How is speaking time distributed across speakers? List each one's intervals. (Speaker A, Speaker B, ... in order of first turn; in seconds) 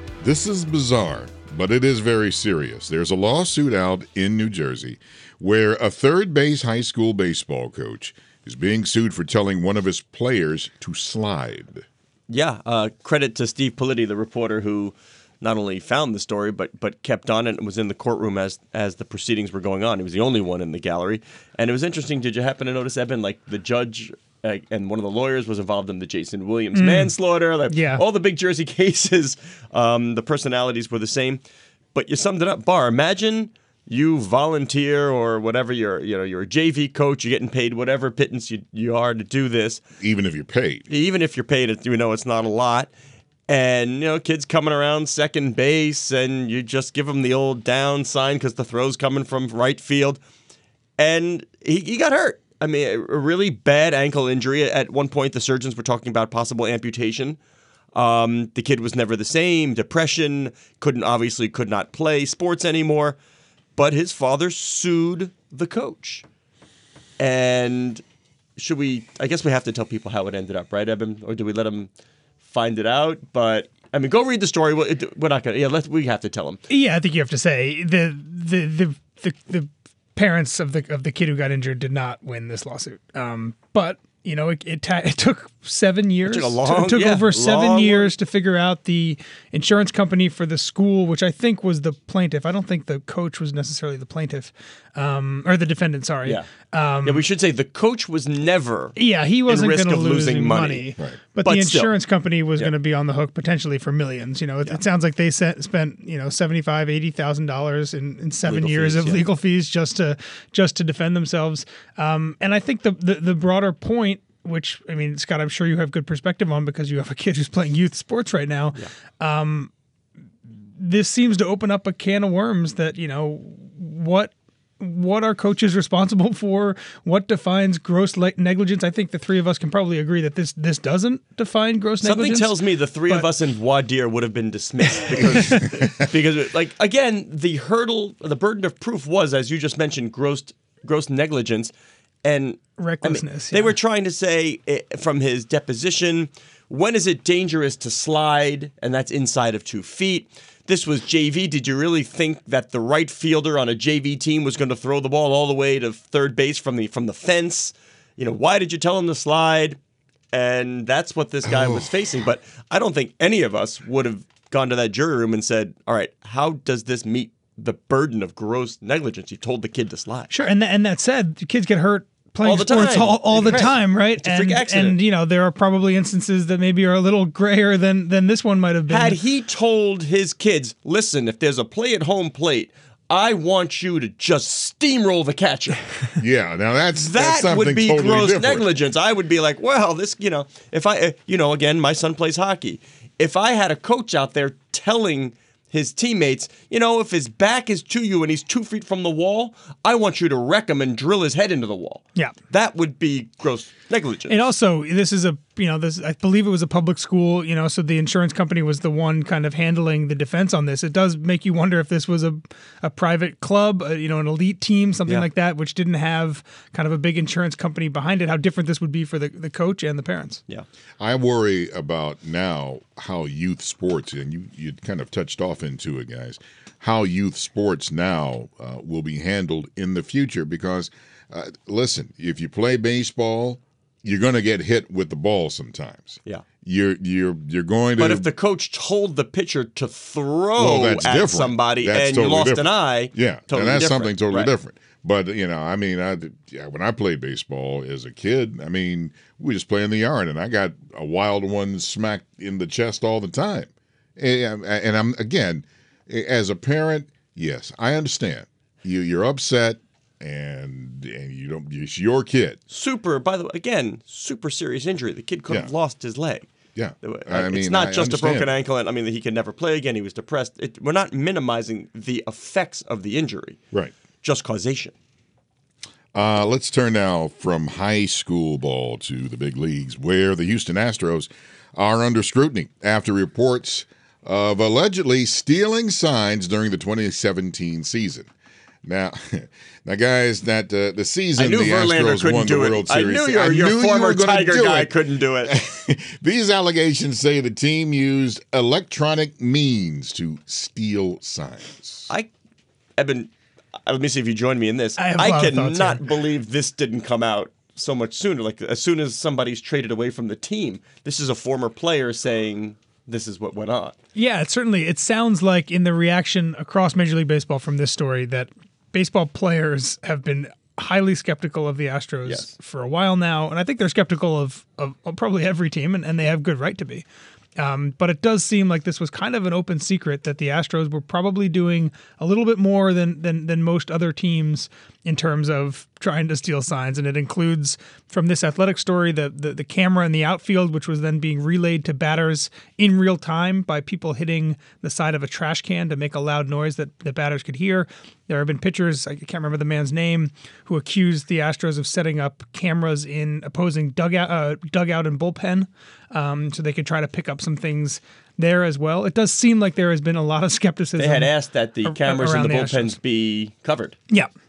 Speaker A: 0.2-11.8, 40.0-40.9, 161.6-161.9, 186.2-188.7, 221.0-238.3, 240.6-262.6, 266.8-268.5, 276.1-288.3, 288.8-302.1
Speaker B: 12.3-31.4, 31.9-39.8, 40.9-42.9, 43.5-50.2, 51.0-57.4, 58.0-63.2, 63.8-66.2, 67.2-68.0, 68.6-71.9, 72.4-76.6, 86.2-88.1, 97.0-100.9, 101.4-101.9, 108.4-109.2, 132.0-141.7, 142.2-159.8, 160.3-170.5, 172.4-175.0, 178.9-185.8, 186.9-204.4, 238.0-244.5, 262.7-266.5, 267.0-273.6, 274.2-274.9, 291.4-295.5, 303.0-303.3, 303.9-313.9, 322.2-322.5, 361.0-363.9
Speaker C: 26.7-27.1, 27.7-28.0, 76.7-97.3, 99.0-119.7, 120.8-132.5, 142.8-143.8, 170.3-179.2, 204.3-220.4, 305.0-306.0, 314.1-327.1, 327.6-363.0